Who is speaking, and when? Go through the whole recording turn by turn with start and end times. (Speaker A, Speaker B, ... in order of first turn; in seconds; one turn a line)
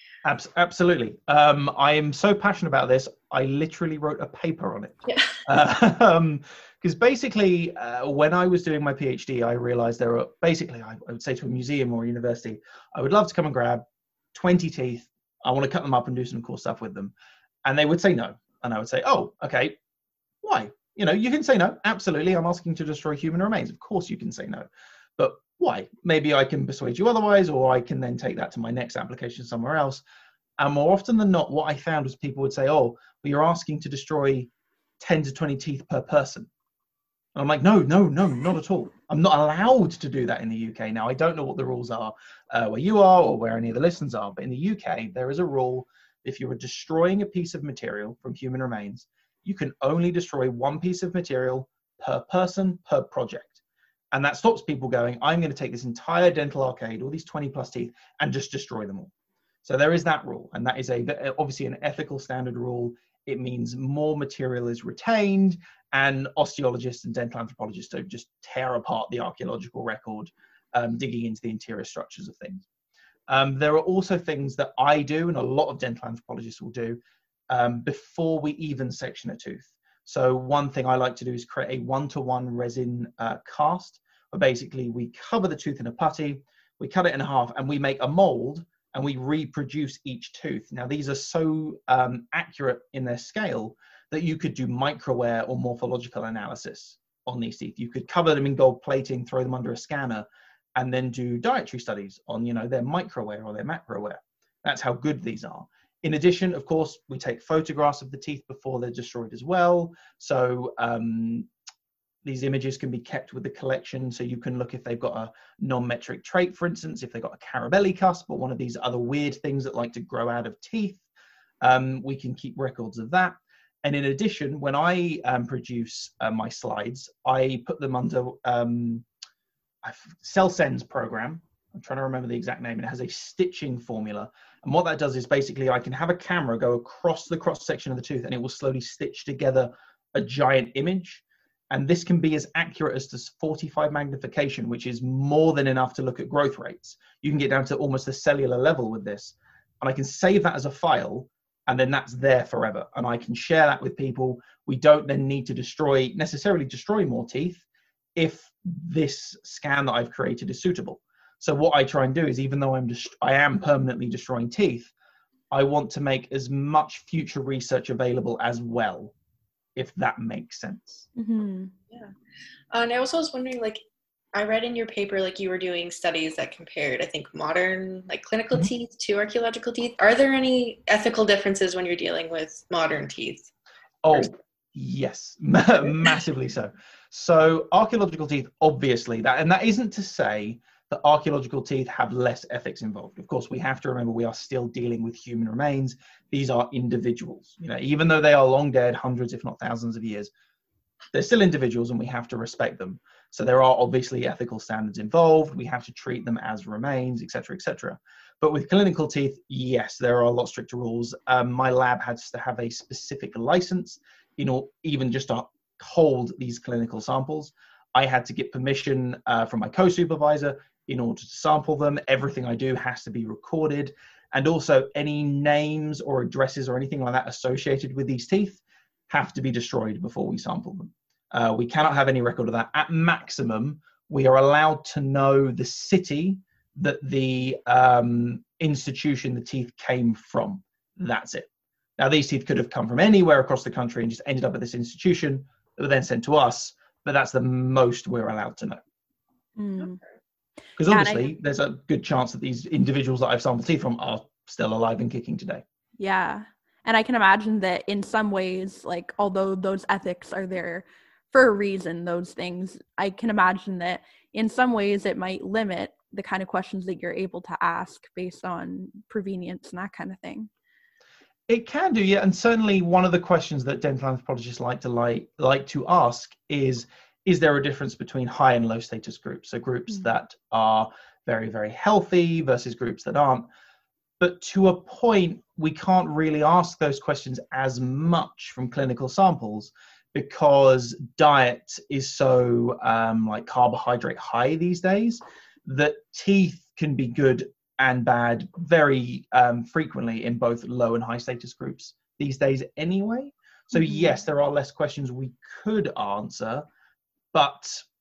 Speaker A: 0.2-13.8
Speaker B: 5.1-5.3
Speaker A: 14.3-17.1
Speaker A: 17.6-19.8
Speaker A: 20.4-30.0
Speaker A: 30.6-36.5
Speaker A: 37.4-53.6
Speaker A: 54.1-59.1
Speaker A: 59.6-72.7
Speaker A: 73.3-77.0
Speaker A: 77.5-111.5
Speaker A: 112.2-121.0
Speaker A: 121.6-129.1
Speaker A: 129.8-157.7
Speaker A: 158.2-164.9
Speaker A: 165.5-169.1
Speaker A: 169.8-171.1
Speaker C: 171.2-171.7
Speaker B: 172.7-173.8
Speaker B: 174.3-183.5
Speaker A: 184.0-200.3
Speaker A: 201.1-248.8
Speaker C: 249.6-250.0
Speaker A: 250.8-255.6
Speaker C: 250.9-251.3
Speaker C: 256.0-270.5
Speaker A: 271.5-283.5
Speaker A: 284.2-306.6
Speaker C: 303.8-304.1
Speaker A: 307.3-307.9